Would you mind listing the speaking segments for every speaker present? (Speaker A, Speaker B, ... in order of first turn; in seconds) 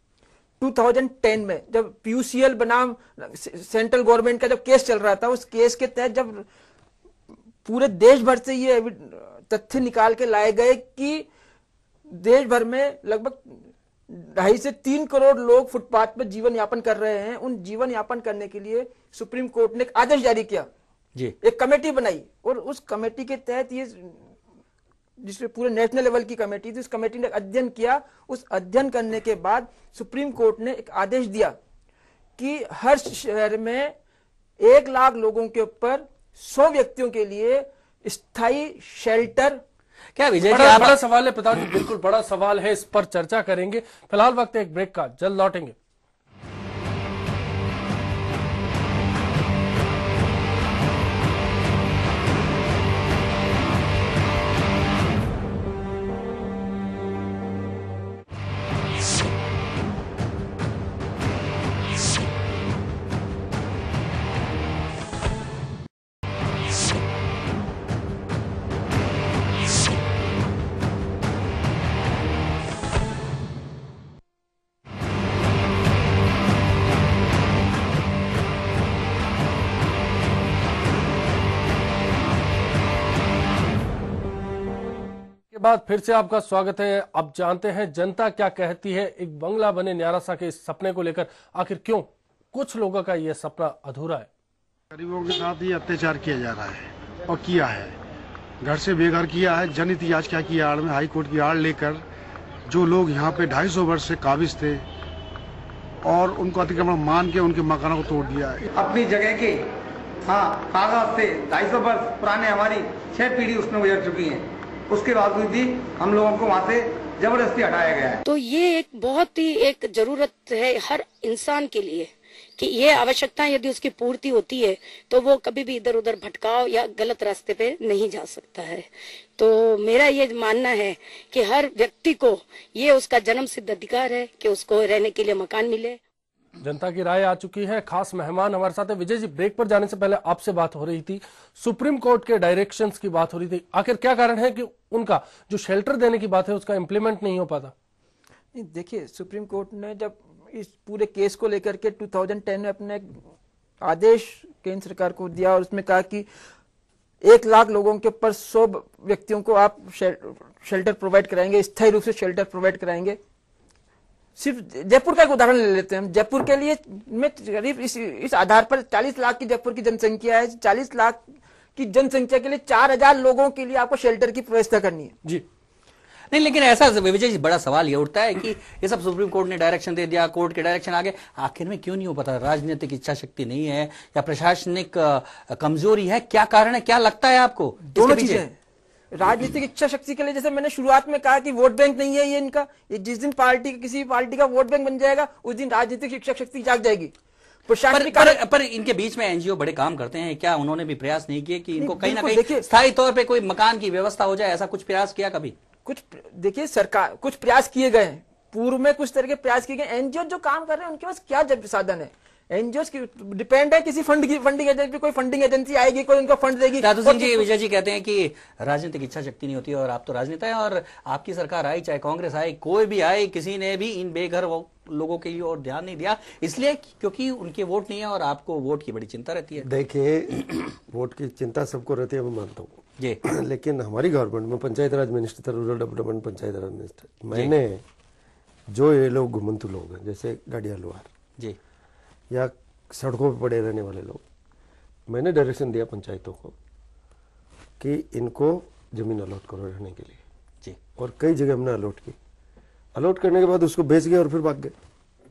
Speaker A: 0.6-6.5, 7.6-11.3, 12.1-20.7, 21.4-24.2, 25.2-31.6, 32.4-33.9, 34.6-39.6, 148.5-153.1, 153.8-156.3, 157.2-163.2, 164.4-171.2, 171.8-175.2, 187.9-188.5, 189.1-197.1, 197.7-198.4, 201.8-202.7, 205.8-217.4
Speaker B: 40.1-41.0, 176.3-188.4, 197.9-205.5, 216.8-229.7
Speaker C: 40.4-45.7, 85.5-94.3, 136.6-147.7
Speaker D: 94.9-97.9, 98.6-102.0, 102.7-104.8, 106.0-108.6
Speaker E: 108.7-109.7, 110.2-118.2
Speaker F: 118.2-136.0
Speaker G: 229.6-237.8, 238.7-241.1, 242.3-244.2, 245.1-246.5, 247.8-250.2, 251.0-252.1, 252.9-254.7